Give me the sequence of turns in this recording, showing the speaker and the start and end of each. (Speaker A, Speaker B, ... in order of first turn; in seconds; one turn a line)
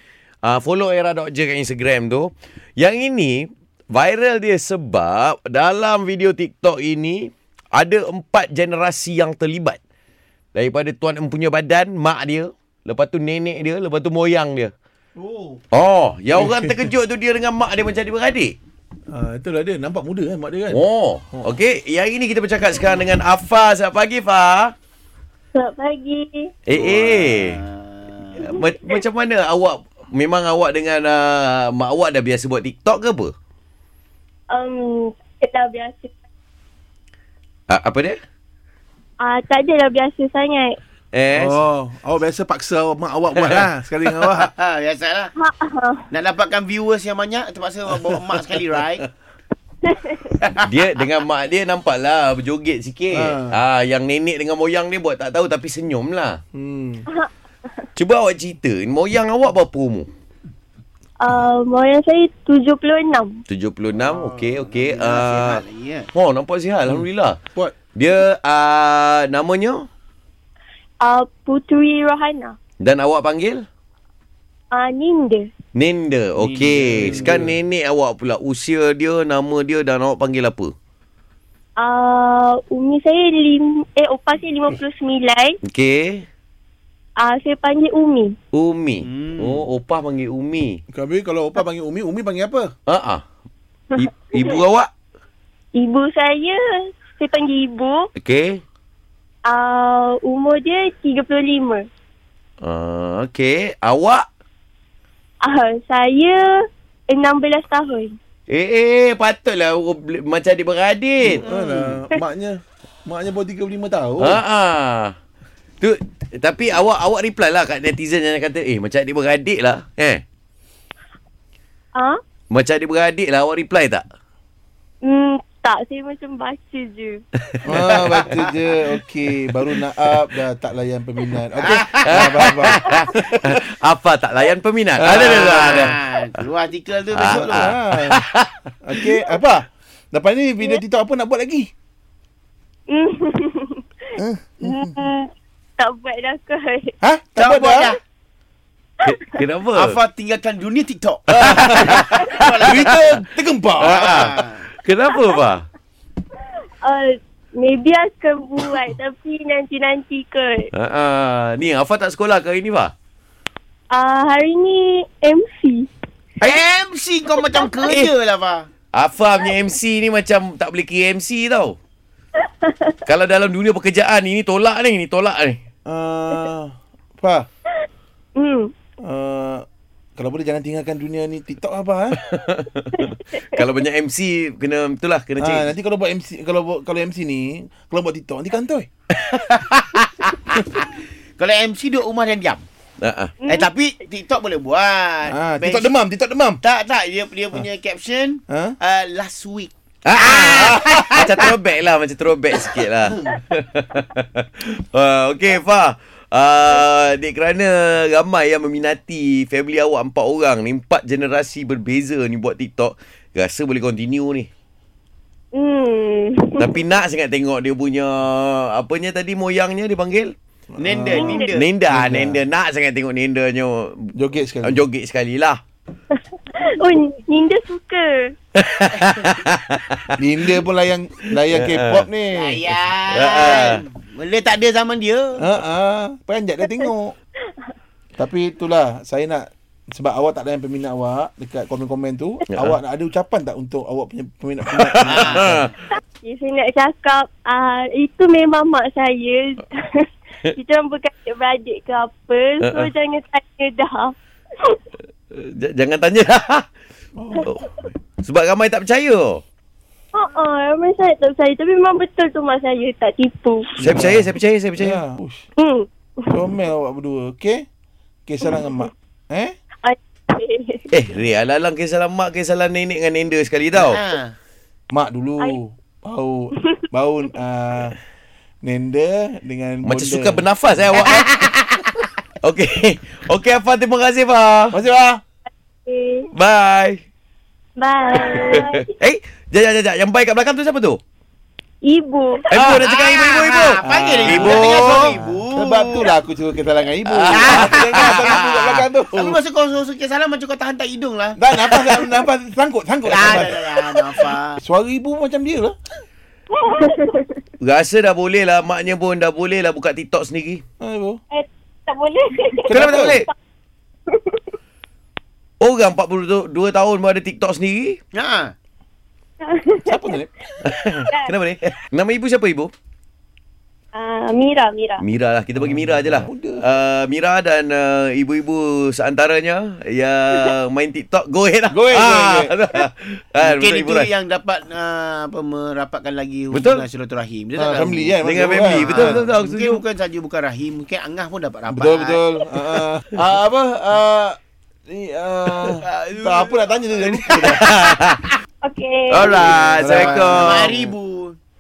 Speaker A: 0.4-9.8
Speaker A: 10.5-14.7
Speaker B: 15.2-15.6
Speaker A: 15.7-18.6
Speaker B: 16.3-16.9
Speaker B: 19.1-20.8
Speaker A: 20.7-24.7
Speaker B: 21.3-21.6
Speaker C: 25.6-26.5
Speaker A: 26.7-27.6
Speaker D: 26.7-28.4
Speaker A: 28.4-33.3
Speaker C: 34.5-36.1
Speaker A: 37.7-38.2
Speaker C: 39.2-40.8
Speaker A: 41.1-41.6
Speaker B: 41.3-44.5
Speaker A: 43.4-43.6
Speaker D: 44.2-45.3
Speaker C: 45.4-46.0
Speaker D: 46.1-49.0
Speaker C: 49.9-50.2
Speaker D: 50.3-50.6
Speaker A: 50.6-56.4
Speaker B: 53.1-53.6
Speaker B: 56.5-57.0
Speaker A: 58.0-60.1
Speaker C: 61.2-63.4
Speaker A: 63.5-65.6
Speaker D: 64.0-66.1
Speaker A: 66.1-67.4
Speaker B: 66.9-67.7
Speaker A: 68.0-69.9
Speaker C: 71.0-72.6
Speaker A: 72.8-73.7
Speaker C: 74.7-75.5
Speaker A: 75.7-80.7
Speaker B: 76.4-77.5
Speaker D: 77.0-77.3
Speaker C: 81.8-85.6
Speaker A: 85.6-86.2
Speaker C: 87.2-88.3
Speaker A: 88.5-90.8
Speaker D: 89.0-89.7
Speaker B: 90.9-92.7
Speaker A: 92.9-93.2
Speaker C: 93.9-94.6
Speaker A: 94.0-94.9
Speaker C: 95.8-98.1
Speaker A: 98.2-98.6
Speaker C: 99.5-101.9
Speaker A: 102.6-104.2
Speaker C: 105.4-106.5
Speaker C: 107.1-108.2
Speaker A: 108.5-111.5
Speaker B: 111.2-114.4
Speaker D: 111.5-112.0
Speaker A: 114.2-115.2
Speaker A: 115.8-120.2
Speaker C: 122.0-122.2
Speaker A: 122.5-124.0
Speaker C: 125.0-127.2
Speaker B: 127.6-133.6
Speaker D: 128.1-128.5
Speaker D: 131.6-132.5
Speaker A: 132.0-136.0
Speaker B: 135.0-135.9
Speaker D: 135.1-137.7
Speaker A: 137.1-138.5
Speaker B: 137.2-138.2
Speaker B: 138.8-141.7
Speaker C: 142.9-143.8
Speaker B: 144.2-145.0
Speaker C: 144.6-146.9
Speaker B: 147.0-147.9
Speaker D: 147.4-148.0
Speaker A: 149.0-150.0
Speaker D: 149.7-153.2
Speaker B: 151.3-154.4
Speaker A: 151.4-152.8
Speaker A: 153.8-155.7
Speaker D: 153.9-154.7
Speaker C: 156.8-160.7
Speaker A: 160.7-162.9
Speaker C: 163.9-165.9
Speaker D: 166.4-168.7
Speaker A: 168.9-171.8
Speaker A: 173.1-175.6
Speaker B: 175.9-177.5
Speaker C: 178.4-178.7
Speaker B: 179.1-179.6
Speaker B: 180.2-182.2
Speaker A: 182.2-185.7
Speaker C: 182.9-183.6
Speaker B: 185.4-188.9
Speaker A: 189.2-190.3
Speaker D: 190.6-192.7
Speaker A: 193.0-193.3
Speaker C: 193.4-193.7
Speaker D: 193.5-195.9
Speaker B: 195.3-196.6
Speaker D: 196.6-201.5
Speaker B: 198.5-198.8
Speaker A: 200.1-214.5
Speaker B: 200.8-201.2
Speaker C: 215.5-216.8
Speaker A: 216.6-220.3
Speaker B: 220.7-221.3
Speaker D: 220.8-221.7
Speaker C: 221.1-221.6
Speaker A: 221.2-225.6
Speaker B: 221.9-222.4
Speaker B: 224.2-224.8
Speaker C: 226.1-228.3
Speaker A: 228.6-230.1
Speaker D: 229.0-229.4
Speaker B: 230.2-232.7
Speaker A: 231.5-232.1
Speaker D: 232.3-235.5
Speaker A: 233.1-233.8
Speaker B: 235.4-237.2
Speaker B: 238.2-245.7
Speaker A: 244.9-245.7
Speaker D: 245.0-245.6
Speaker C: 246.2-254.8
Speaker A: 252.6-252.9
Speaker A: 255.3-256.7
Speaker B: 257.2-257.5
Speaker A: 257.4-259.4
Speaker C: 260.1-263.7
Speaker A: 263.8-265.0
Speaker B: 263.8-265.4
Speaker C: 265.6-266.4
Speaker B: 266.3-267.7
Speaker B: 268.3-269.6
Speaker C: 268.5-268.9
Speaker C: 269.8-270.9
Speaker A: 270.9-274.0
Speaker D: 273.7-274.4
Speaker B: 274.9-278.0
Speaker B: 278.6-280.5
Speaker A: 279.8-281.5
Speaker A: 282.4-284.8
Speaker B: 284.7-285.2
Speaker C: 285.9-286.3
Speaker A: 286.3-287.0
Speaker C: 287.8-288.9
Speaker A: 288.2-291.0
Speaker C: 291.8-292.5
Speaker A: 292.5-295.2
Speaker D: 292.5-296.1
Speaker B: 293.8-299.4
Speaker A: 297.1-298.4
Speaker D: 297.3-298.5
Speaker D: 299.1-302.1
Speaker B: 301.4-305.8
Speaker D: 303.1-304.6
Speaker C: 306.5-307.4
Speaker A: 307.6-310.6
Speaker B: 310.8-311.2
Speaker C: 311.3-313.3
Speaker B: 312.7-313.2
Speaker A: 312.7-313.3
Speaker C: 314.1-314.4
Speaker A: 315.6-318.0
Speaker D: 318.1-318.6
Speaker C: 319.4-320.1
Speaker B: 319.9-320.4
Speaker A: 320.7-322.7
Speaker C: 321.0-321.3
Speaker C: 323.9-325.0
Speaker A: 325.0-334.1
Speaker B: 325.6-326.6
Speaker B: 331.7-332.5
Speaker D: 333.4-342.2
Speaker A: 336.5-336.9
Speaker B: 337.6-339.2
Speaker A: 338.2-339.8
Speaker B: 341.7-344.4
Speaker B: 344.9-347.7
Speaker D: 345.8-347.7
Speaker A: 347.3-348.3
Speaker C: 348.6-349.6
Speaker A: 349.1-350.9
Speaker B: 349.3-350.8
Speaker D: 349.4-351.4